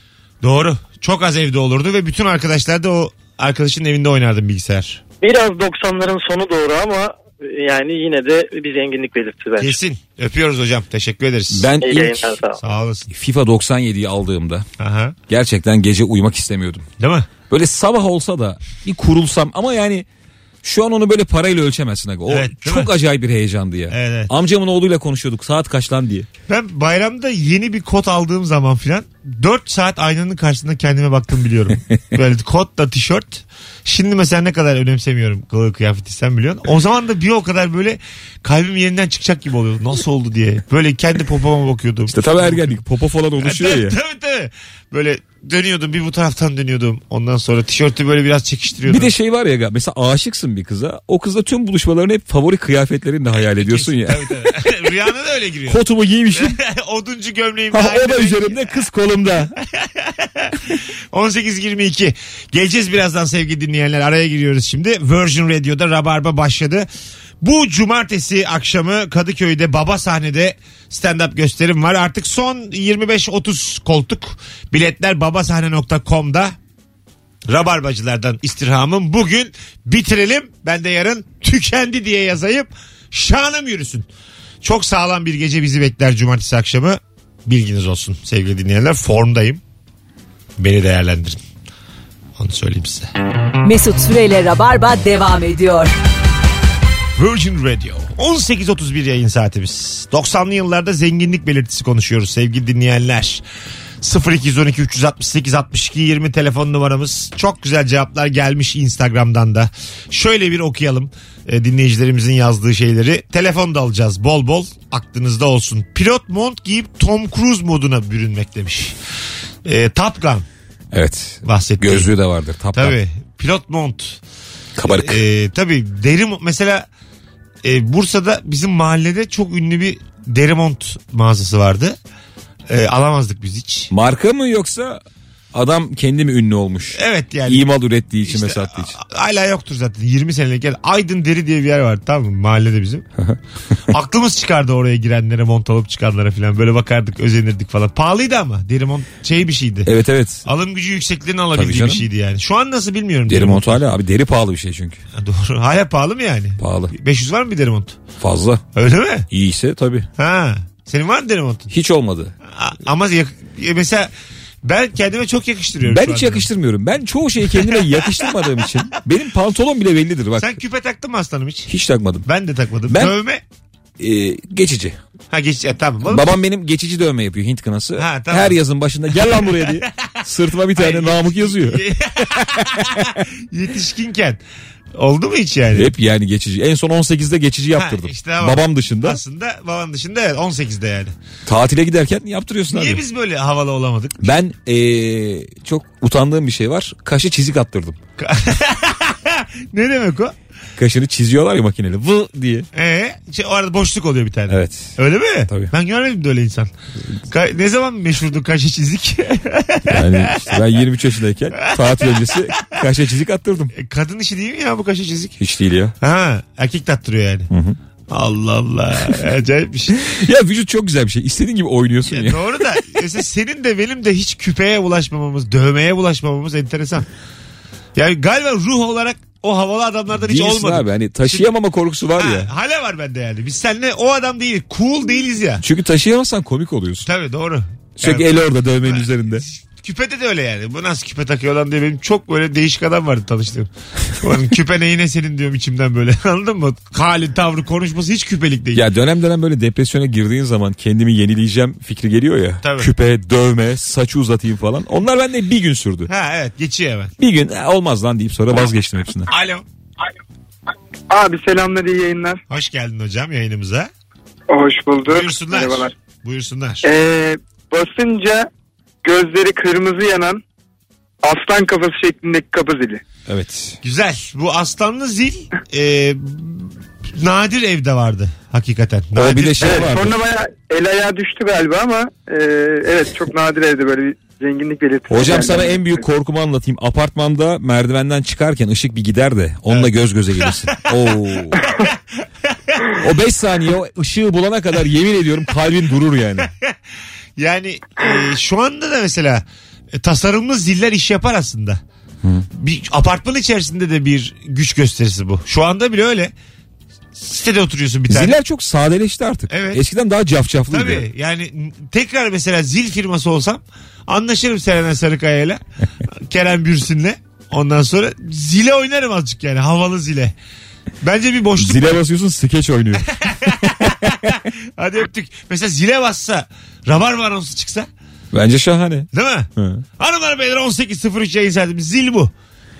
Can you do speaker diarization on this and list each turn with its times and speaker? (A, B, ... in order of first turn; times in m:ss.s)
0:00.4-0:05.0 A
0:05.2-0:09.8 B
0:09.6-0:11.7 A
0:11.5-0:12.3 C
0:11.8-0:12.6 B
0:12.6-0:13.1 A
0:13.1-0:14.6 C
0:14.8-0:15.2 A
0:15.3-0:16.8 C
0:17.0-0:17.3 A
0:17.5-0:20.0 C
0:20.6-0:26.3 C
0:22.3-0:22.9 A
0:23.9-0:24.3 A
0:26.5-0:42.7 A
0:42.1-0:44.0 C
0:43.4-0:49.1 A
0:48.8-0:54.4 C
0:53.6-0:58.8 A
0:55.7-0:56.6 C
0:57.7-0:59.5 C
0:59.7-1:00.6 A
1:01.1-1:06.9 A
1:07.4-1:16.5 A
1:17.5-1:24.1 A
1:24.6-1:29.6 A
1:30.6-1:31.4 A
1:32.4-1:33.1 A
1:33.6-1:35.9 D
1:37.2-1:43.4 A
1:44.0-1:59.0 A
1:59.6-2:00.4 A
2:00.9-2:03.0 C
2:01.4-2:02.1 A
2:02.7-2:04.2 A
2:04.8-2:05.2 C
2:04.8-2:06.9 A
2:07.6-2:12.0 A
2:12.7-2:13.9 A
2:13.9-2:15.0 C
2:15.5-2:18.9 C
2:16.9-2:17.6 A
2:18.2-2:23.1 A
2:23.9-2:29.9 A
2:29.8-2:30.4 C
2:30.4-2:33.8 A
2:31.6-2:32.0 C
2:33.3-2:35.0 C
2:35.1-2:38.0 A
2:36.6-2:36.9 C
2:38.2-2:38.6 C
2:38.7-2:39.3 A
2:39.3-2:40.0 C
2:40.2-2:41.7 A
2:41.7-2:42.3 C
2:42.5-2:44.1 A
2:44.6-2:46.5 A
2:45.8-2:50.5 C
2:47.4-2:48.2 A
2:50.4-2:51.7 A
2:51.7-2:52.2 C
2:52.2-2:53.4 A
2:52.9-2:53.1 C
2:54.0-2:55.0 C
2:55.3-2:56.3 A
2:56.1-3:03.2 C
2:58.0-2:58.6 A
2:59.2-3:00.1 A
3:00.7-3:04.4 A
3:05.0-3:05.9 A
3:05.7-3:09.2 C
3:07.7-3:11.1 A
3:11.4-3:13.0 C
3:12.7-3:14.3 A
3:14.2-3:18.0 C
3:18.2-3:20.3 A
3:20.8-3:22.7 C
3:22.7-3:26.7 A
3:24.5-3:24.9 C
3:27.3-3:30.6 A
3:29.9-3:33.7 C
3:31.6-3:32.8 A
3:33.7-3:35.4 A
3:35.4-3:35.9 C
3:36.0-3:37.5 A
3:37.5-3:37.8 C
3:38.1-3:40.1 A
3:40.0-3:42.4 C
3:42.1-3:47.1 A
3:47.9-3:51.5 A
3:50.2-3:52.5 C
3:52.2-3:55.6 A
3:55.6-3:57.1 C
3:57.0-3:58.3 A
3:58.0-3:59.4 C
3:58.8-4:08.8 A
4:08.7-4:16.1 C
4:12.6-4:12.9 A
4:16.1-4:17.1 A
4:17.2-4:19.3 C
4:19.3-4:19.6 A
4:21.1-4:22.4 E
4:22.5-4:23.9 A
4:24.5-4:25.9 E
4:25.0-4:26.8 A
4:26.8-4:28.5 E
4:29.0-4:30.4 E
4:31.2-4:33.0 E
4:33.3-4:33.8 C
4:33.8-4:39.9 A
4:39.2-4:40.1 C
4:39.6-4:46.0 E
4:45.1-4:51.6 C
4:49.7-4:51.0 A
4:51.6-4:51.9 A
4:53.0-4:56.5 C
4:57.4-5:01.8 A
5:02.5-5:06.3 A
5:07.1-5:08.3 A
5:08.1-5:11.0 C
5:09.5-5:09.8 A
5:10.7-5:15.6 A
5:16.3-5:20.3 A
5:21.0-5:22.0 A
5:21.6-5:24.4 C
5:23.2-5:27.9 A
5:28.3-5:29.8 C
5:29.1-5:32.3 A